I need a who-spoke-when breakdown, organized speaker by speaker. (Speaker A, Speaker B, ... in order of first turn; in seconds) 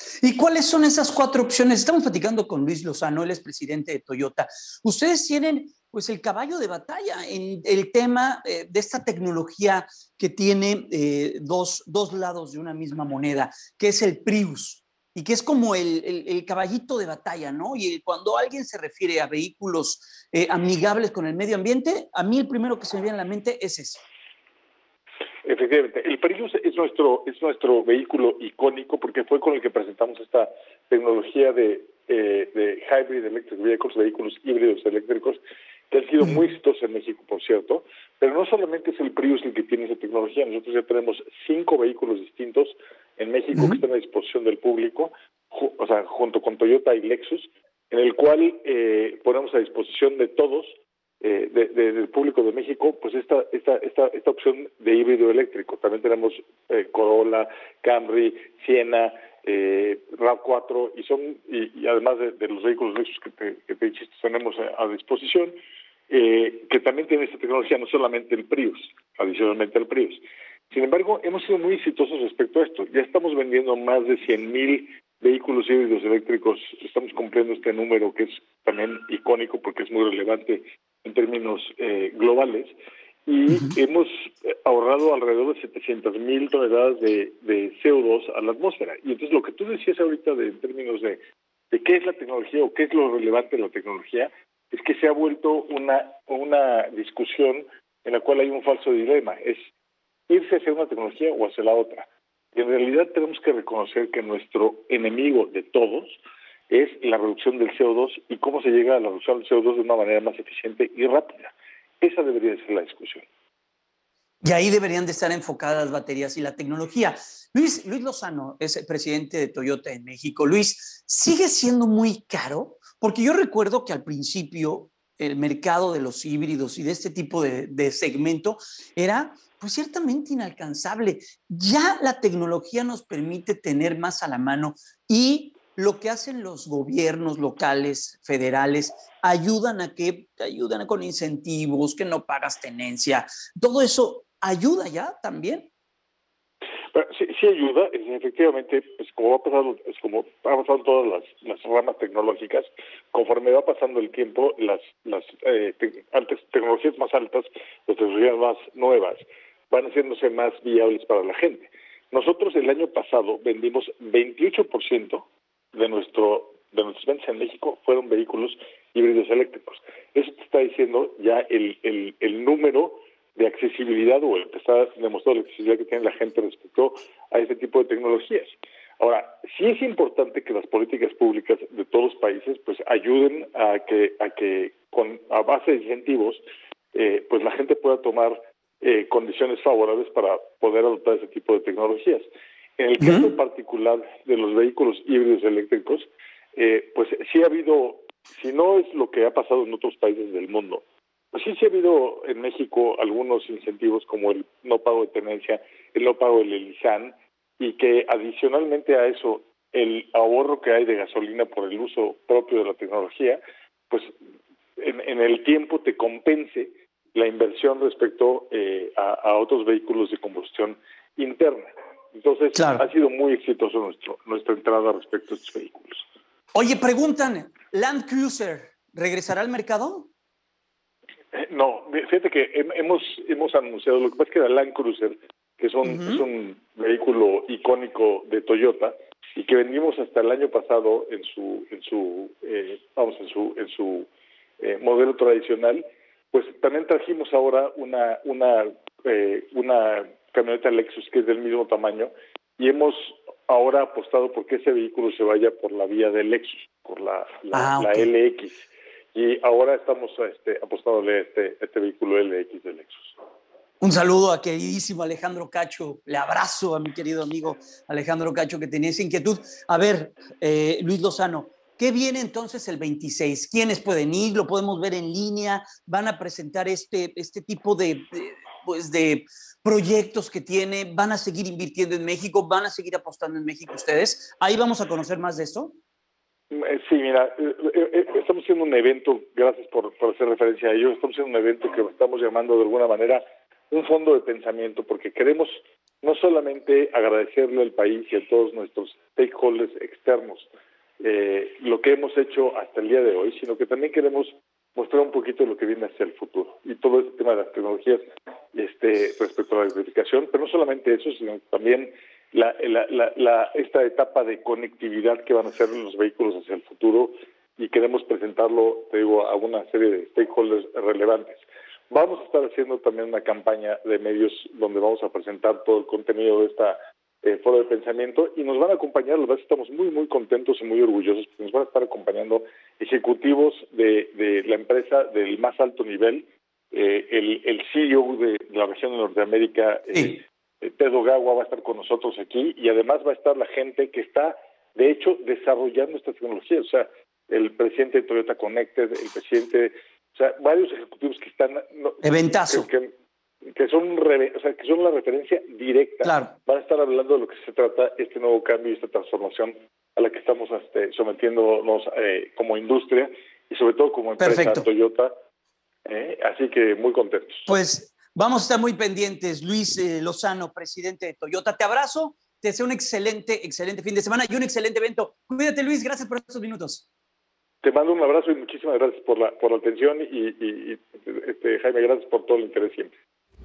Speaker A: 0.2-24.1, 114.4-145.7, 193.0-193.3, 222.6-222.8, 226.6-230.1, 235.8-236.2, 257.5-258.1, 263.8-285.8, 352.0-352.7, 356.0-356.4, 364.2-364.7, 367.5-376.9
Speaker B: 25.4-35.4, 35.9-65.6, 66.1-99.7, 100.3-113.3, 146.9-186.4, 186.9-214.1, 214.8-226.1, 231.3-244.1, 244.6-263.2, 286.5-300.5, 301.0-352.9, 353.5-365.1, 365.9-367.5, 377.6-382.9